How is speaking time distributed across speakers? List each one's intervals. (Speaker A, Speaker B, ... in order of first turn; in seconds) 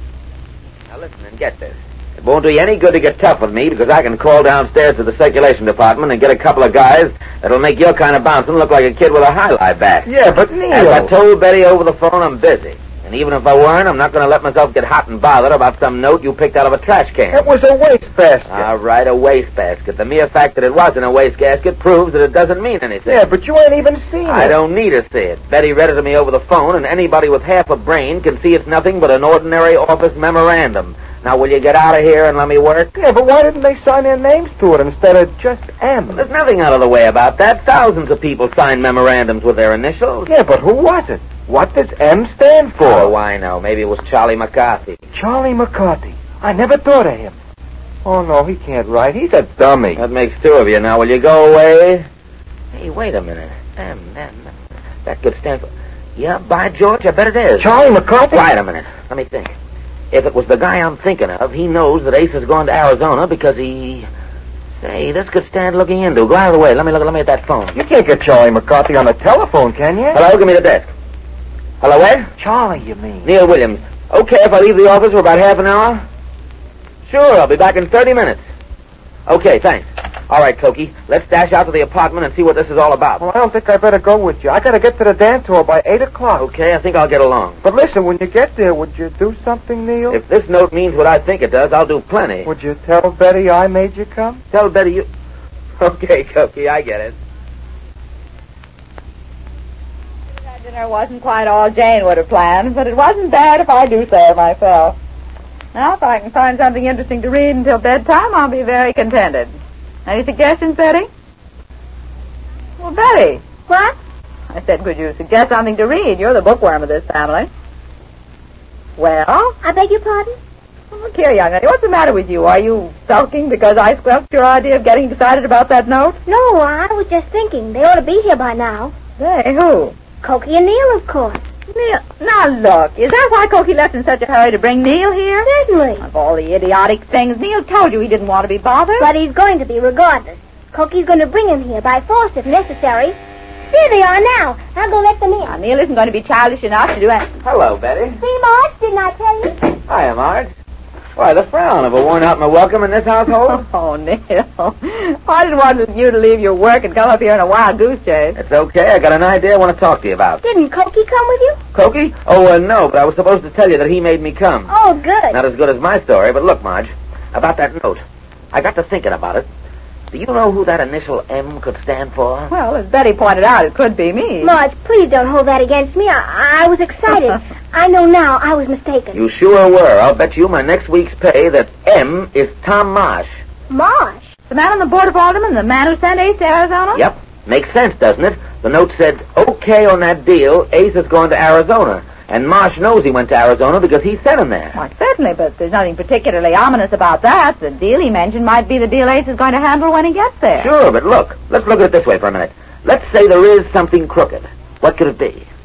Speaker A: 0.9-10.1, 10.7-17.5, 18.5-23.3, 24.3-32.9, 36.1-40.3, 42.8-45.0, 50.0-52.1, 52.7-54.5, 55.0-59.5, 60.1-64.1, 64.8-67.8, 70.1-70.9, 71.8-72.3, 73.2-76.0, 77.1-78.4, 79.3-83.2, 86.4-87.6, 90.1-92.5, 94.5-95.1, 95.8-97.2, 147.4-148.2, 149.9-150.5, 151.2-153.6, 158.4-160.4, 161.7-164.7, 165.3-169.5, 170.1-172.5, 179.1-183.3, 186.9-194.8, 200.6-205.5
Speaker B: 10.0-11.1, 17.3-18.7, 23.1-24.6, 33.0-36.2, 40.3-43.1, 45.1-47.4, 48.0-50.0, 57.6-58.5, 67.7-70.2, 72.4-73.3, 83.2-86.5, 87.6-90.2, 92.4-94.4
Speaker C: 100.5-105.0, 105.7-111.1, 112.8-113.4, 114.5-117.5, 119.0-119.6, 120.9-126.2, 129.2-129.9, 131.7-139.1, 145.4-147.3, 153.4-158.4, 172.5-174.6, 184.5-187.0, 194.8-200.7
Speaker D: 113.7-114.0, 119.6-120.3, 126.2-128.9, 130.2-131.4, 135.4-136.1, 139.0-143.2, 143.7-145.6, 148.2-149.7, 160.4-161.6, 164.7-165.4, 174.4-179.2, 183.7-184.3